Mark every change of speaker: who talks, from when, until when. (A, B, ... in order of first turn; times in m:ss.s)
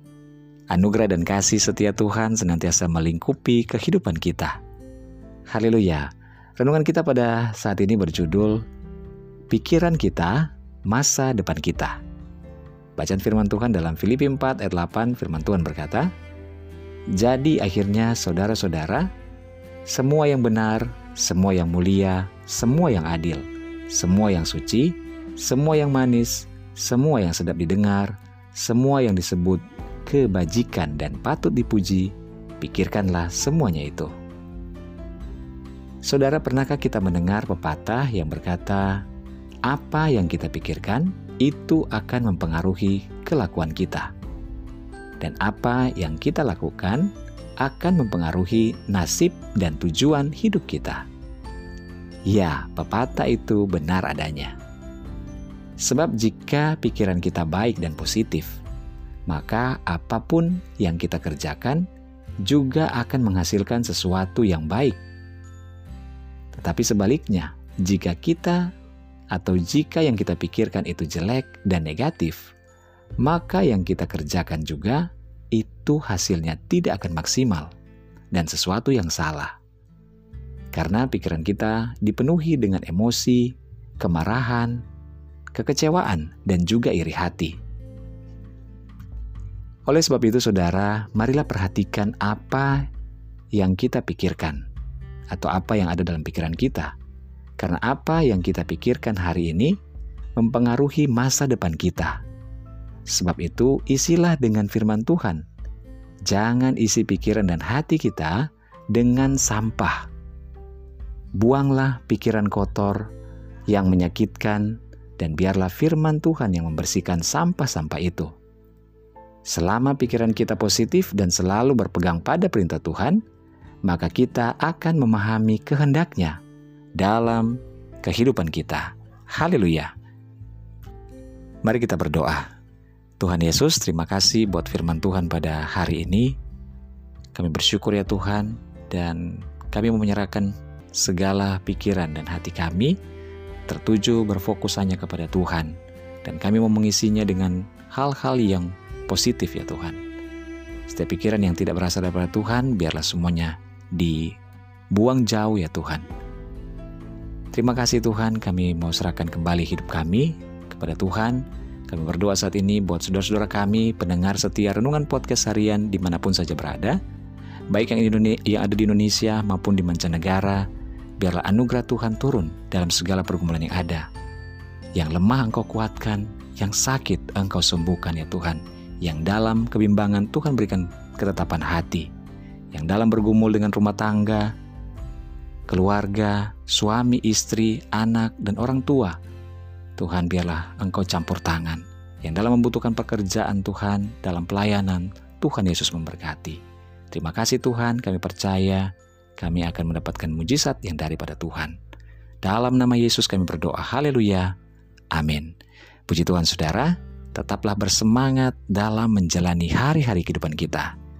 0:00.7-0:04.6 A
0:05.5-0:08.6 A
0:09.5-0:12.0 A
0:13.0-0:16.1 A
0:17.2-0:19.1 A
0:19.9-0:34.1 A
0:36.0-0:39.0 A
0:39.7-0:44.1 A
0:45.2-0:47.1 A
0:47.6-0:51.0 A
0:52.3-0:54.6 A
0:55.8-0:58.6 A
0:59.3-1:01.8 A
1:02.4-1:05.0 A
1:06.5-1:08.7 A
1:09.3-1:12.5 A
1:13.2-1:17.7 A
1:18.3-1:19.6 A
1:20.7-1:24.8 A
1:25.5-1:27.6 A
1:29.8-1:32.9 A
1:33.5-1:34.6 A
1:35.3-1:36.9 A
1:37.6-1:39.8 A
1:40.4-1:42.2 A
1:43.1-1:45.4 A
1:46.3-1:50.1 A
1:51.4-1:53.1 A
1:53.7-1:58.3 A
1:59.5-2:03.2 A
2:03.8-2:06.4 A
2:07.0-2:09.9 A
2:11.6-2:12.5 A
2:13.2-2:16.4 A
2:17.3-2:23.0 A
2:23.7-2:30.0 A
2:30.9-2:34.4 A
2:34.9-2:36.0 A
2:37.5-2:47.0 A
2:47.7-2:50.6 A
2:51.2-2:54.1 A
2:55.0-3:02.1 A
3:02.7-3:04.5 A
3:05.7-3:09.2 A
3:10.0-3:16.6 A
3:17.1-3:21.8 A
3:22.4-3:24.5 A
3:25.1-3:25.5 A
3:26.1-3:30.9 A